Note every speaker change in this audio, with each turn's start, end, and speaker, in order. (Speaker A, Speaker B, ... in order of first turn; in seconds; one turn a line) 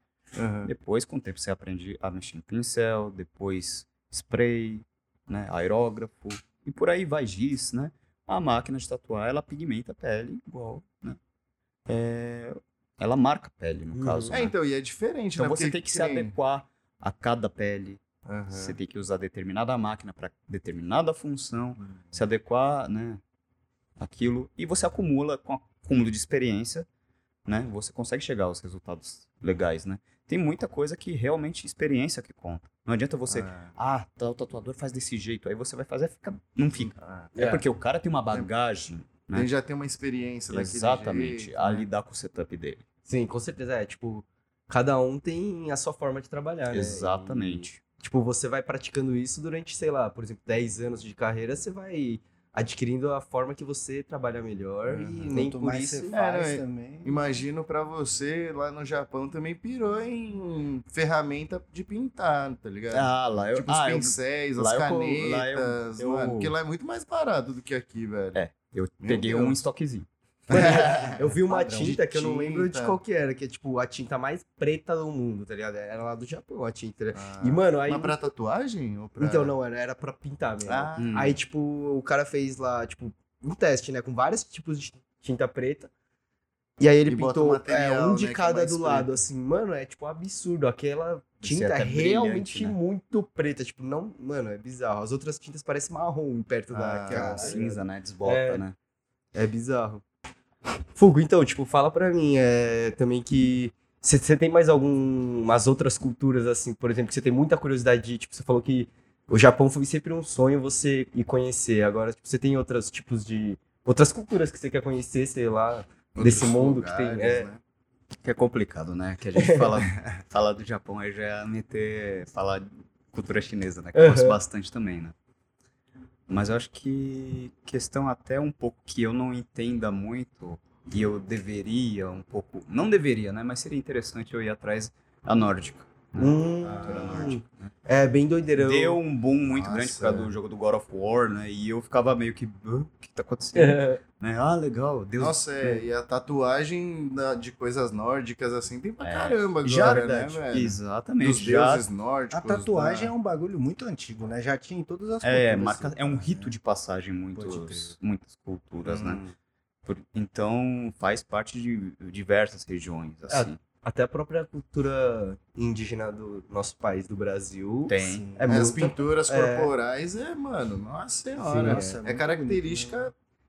Speaker A: 0.3-0.7
Speaker B: 0.6-11.2
Speaker B: 11.9-14.5
Speaker C: 13.9-14.4
Speaker A: 14.3-16.3
Speaker B: 15.3-18.0
Speaker A: 18.2-18.8
Speaker B: 18.5-23.2
Speaker A: 21.8-22.1
Speaker B: 24.0-26.9
Speaker B: 27.4-39.5
Speaker A: 33.3-33.7
Speaker A: 36.8-37.3
Speaker C: 37.3-37.6
Speaker A: 39.3-41.9
Speaker B: 40.5-42.8
Speaker C: 43.1-56.1
Speaker B: 46.7-47.8
Speaker A: 55.0-55.5
Speaker D: 55.3-57.4
Speaker A: 56.1-68.4
Speaker B: 62.9-66.5
Speaker B: 68.3-70.1
Speaker A: 69.0-69.6
Speaker A: 70.5-73.0
Speaker C: 70.5-78.2
Speaker D: 71.5-72.0
Speaker A: 77.1-79.5
Speaker C: 79.2-85.9
Speaker A: 80.7-81.2
Speaker B: 81.0-81.4
Speaker C: 86.8-98.6
Speaker A: 87.1-89.2
Speaker B: 91.4-92.7
Speaker A: 96.7-97.5
Speaker D: 97.1-97.6
Speaker B: 97.2-98.7
Speaker C: 99.3-100.0
Speaker C: 100.9-117.5
Speaker A: 116.1-117.6
Speaker B: 118.2-125.1
Speaker C: 119.4-119.6
Speaker C: 123.9-124.4
Speaker B: 126.3-137.7
Speaker C: 136.2-139.0
Speaker A: 136.6-137.4
Speaker B: 138.6-145.8
Speaker A: 139.5-140.3
Speaker C: 143.5-144.0
Speaker A: 145.2-153.1
Speaker B: 149.0-151.9
Speaker D: 152.3-156.5
Speaker B: 155.2-159.2
Speaker D: 157.3-157.9
Speaker A: 158.8-159.3
Speaker B: 159.8-163.6
Speaker C: 163.3-169.7
Speaker B: 167.9-168.3
Speaker D: 168.0-168.5
Speaker A: 168.4-173.1
Speaker D: 171.4-173.1
Speaker C: 171.5-171.9